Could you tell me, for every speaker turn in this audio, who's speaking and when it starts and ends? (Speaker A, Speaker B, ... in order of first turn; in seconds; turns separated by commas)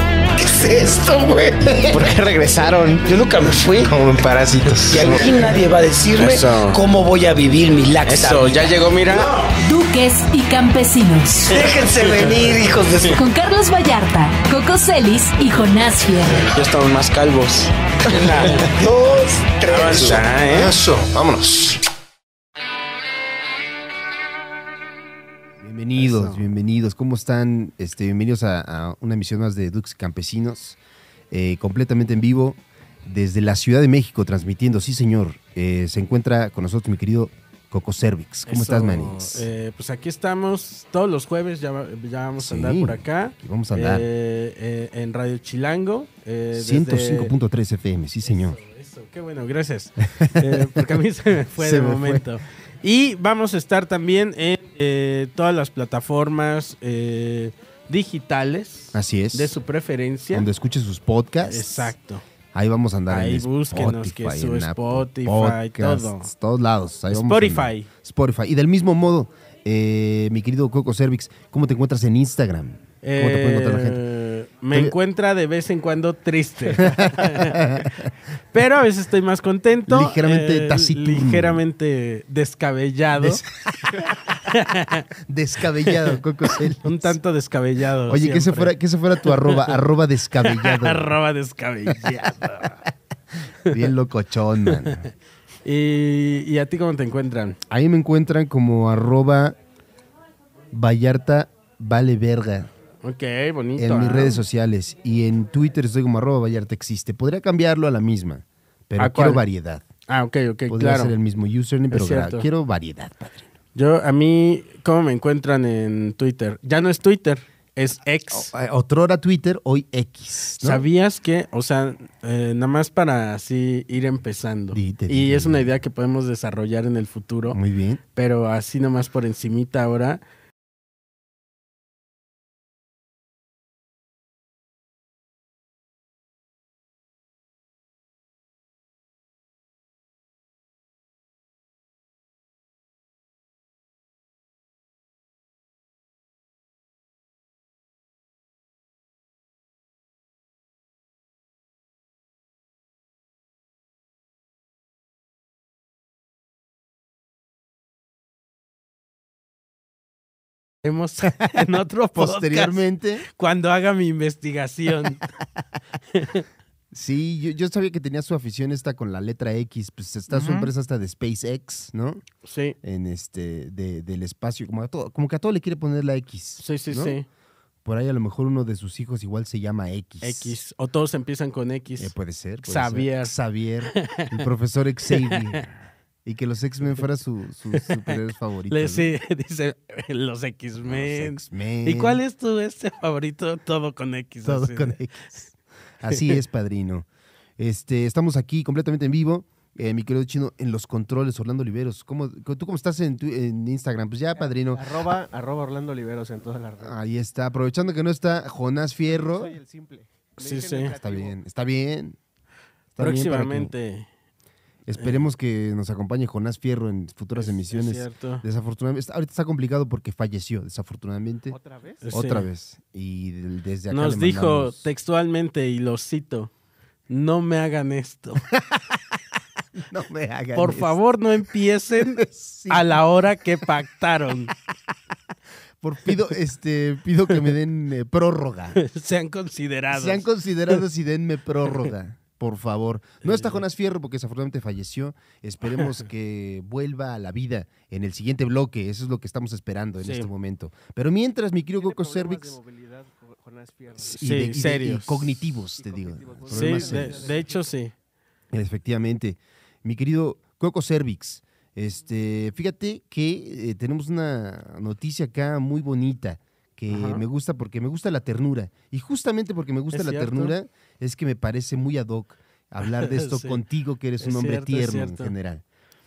Speaker A: 0.4-1.6, Speaker B: 1.5-3.0, Speaker C: 1.9-3.0, Speaker A: 3.0-4.0, Speaker B: 3.7-5.7, Speaker A: 4.9-8.7, Speaker C: 6.2-6.8, Speaker B: 6.2-6.8, Speaker C: 8.1-9.3, Speaker D: 9.6-11.5, Speaker C: 11.5-13.2, Speaker A: 11.5-13.2, Speaker B: 11.9-12.4, Speaker D: 13.1-16.4, Speaker C: 16.4-18.7, Speaker B: 18.1-21.7, Speaker A: 18.2-20.2, Speaker C: 19.6-20.8, Speaker E: 20.0-21.8, Speaker E: 25.6-30.8, Speaker C: 26.0-26.5, Speaker E: 31.3-39.5, Speaker C: 38.5-47.3, Speaker E: 42.4-44.1, Speaker E: 46.5-48.6, Speaker C: 48.2-60.5, Speaker E: 50.2-50.9, Speaker E: 51.5-52.3, Speaker E: 58.9-59.6, Speaker E: 60.3-62.0, Speaker C: 61.5-62.2, Speaker E: 62.5-74.0, Speaker C: 63.1-66.3, Speaker C: 67.1-67.9, Speaker C: 73.0-77.8, Speaker E: 76.8-78.1, Speaker C: 78.5-83.4, Speaker E: 79.9-81.6, Speaker E: 83.2-84.0, Speaker C: 84.3-85.1, Speaker E: 85.2-87.2, Speaker C: 85.8-86.2, Speaker C: 86.8-89.8, Speaker E: 88.1-91.1, Speaker C: 90.4-92.8, Speaker E: 92.0-92.7, Speaker E: 93.7-95.1, Speaker C: 94.7-95.0, Speaker C: 95.7-97.6, Speaker E: 97.7-99.6, Speaker E: 100.7-102.7, Speaker C: 103.0-104.4, Speaker E: 103.8-109.9, Speaker C: 109.0-109.4, Speaker C: 110.1-111.1, Speaker E: 110.7-113.5, Speaker C: 111.9-112.5, Speaker C: 113.8-118.5, Speaker E: 118.3-120.9, Speaker C: 120.6-127.6, Speaker E: 124.7-125.7, Speaker E: 127.5-128.0, Speaker C: 128.2-130.2, Speaker C: 160.8-165.3, Speaker E: 161.2-163.3, Speaker C: 166.1-166.5, Speaker E: 166.9-172.2, Speaker C: 170.3-170.7, Speaker C: 172.4-172.8, Speaker E: 172.8-177.2, Speaker C: 176.6-177.3, Speaker E: 177.8-180.6, Speaker C: 180.2-183.3, Speaker E: 182.0-189.1, Speaker C: 183.9-184.4, Speaker C: 185.1-185.7, Speaker C: 187.7-195.0, Speaker E: 190.9-192.2, Speaker E: 194.4-197.1, Speaker C: 196.1-196.4, Speaker E: 197.6-205.1, Speaker F: 204.3-206.9, Speaker E: 206.8-209.6, Speaker F: 209.1-211.4, Speaker C: 210.4-210.9, Speaker E: 211.0-212.2, Speaker E: 212.9-213.7, Speaker C: 213.0-214.1, Speaker E: 214.9-221.6, Speaker C: 215.0-215.3, Speaker C: 217.3-218.4, Speaker F: 221.5-222.0, Speaker C: 222.0-222.5, Speaker E: 222.1-224.9, Speaker C: 223.9-226.5, Speaker C: 227.1-228.5, Speaker E: 228.6-229.0, Speaker E: 229.8-231.0, Speaker C: 230.5-234.5, Speaker E: 232.2-233.0, Speaker E: 235.8-238.8, Speaker C: 238.8-240.8, Speaker E: 239.9-252.6, Speaker C: 241.7-241.9, Speaker C: 243.2-243.6, Speaker C: 250.0-250.3, Speaker F: 251.8-254.5, Speaker E: 254.0-257.4, Speaker C: 254.1-255.3, Speaker F: 255.8-257.7, Speaker C: 256.5-257.9, Speaker E: 258.5-275.6, Speaker C: 266.9-267.2, Speaker C: 269.9-270.6, Speaker C: 272.8-273.6, Speaker C: 274.2-275.3